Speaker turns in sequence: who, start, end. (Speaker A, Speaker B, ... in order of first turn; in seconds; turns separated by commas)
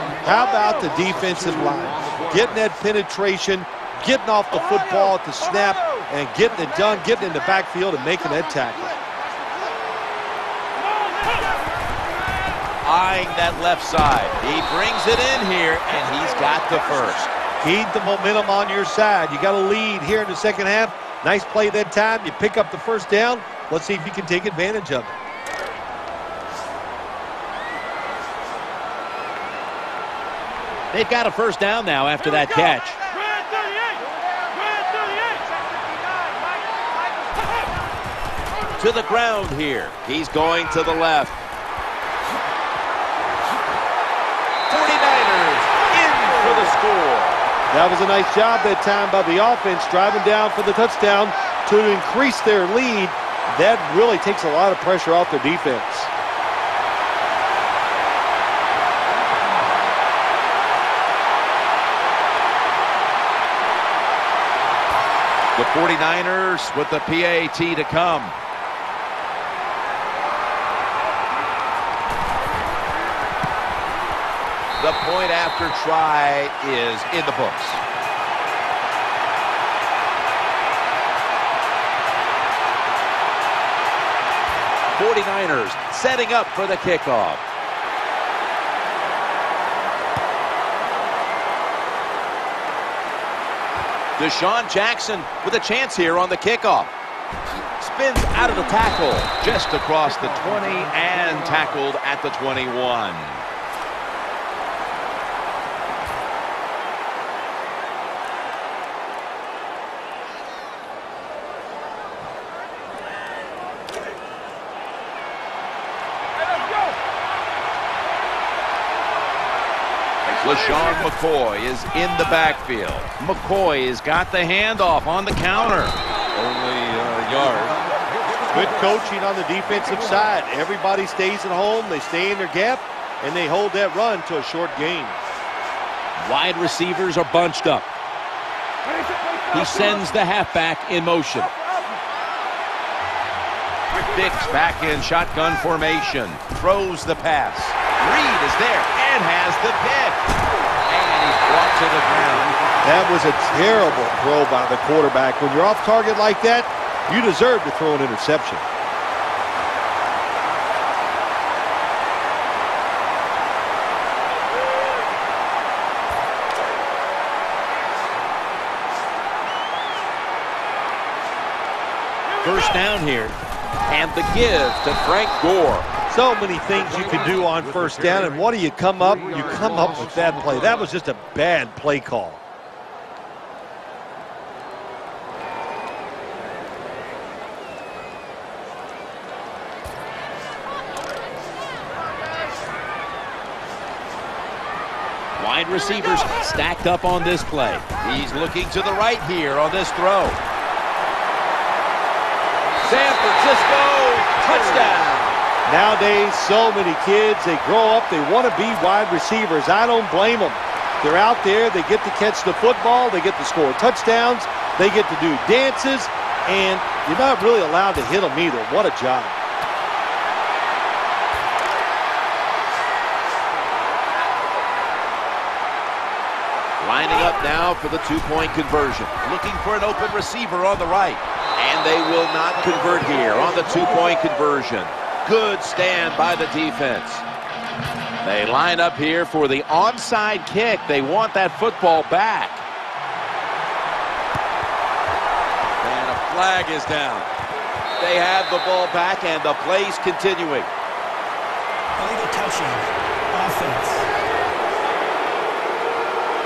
Speaker A: 0.2-9.0, Speaker B: 12.8-17.3, Speaker A: 17.6-25.1, Speaker B: 30.9-33.0, Speaker B: 38.8-41.4, Speaker B: 44.7-47.4, Speaker A: 47.7-56.1, Speaker B: 65.5-68.3, Speaker B: 74.8-77.8, Speaker B: 84.9-87.4, Speaker B: 94.2-96.9, Speaker B: 97.8-103.4, Speaker B: 120.4-127.8, Speaker A: 128.5-135.2, Speaker B: 136.2-137.9, Speaker B: 139.5-141.5, Speaker B: 144.1-150.2, Speaker B: 150.9-152.5, Speaker A: 152.8-158.7, Speaker B: 172.4-173.3, Speaker B: 173.9-175.9, Speaker A: 176.1-182.4, Speaker B: 195.4-200.4, Speaker B: 202.8-205.4, Speaker A: 205.7-219.4, Speaker B: 226.8-237.2, Speaker B: 238.2-242.6, Speaker B: 245.8-247.3, Speaker B: 248.0-250.7, Speaker C: 252.0-254.1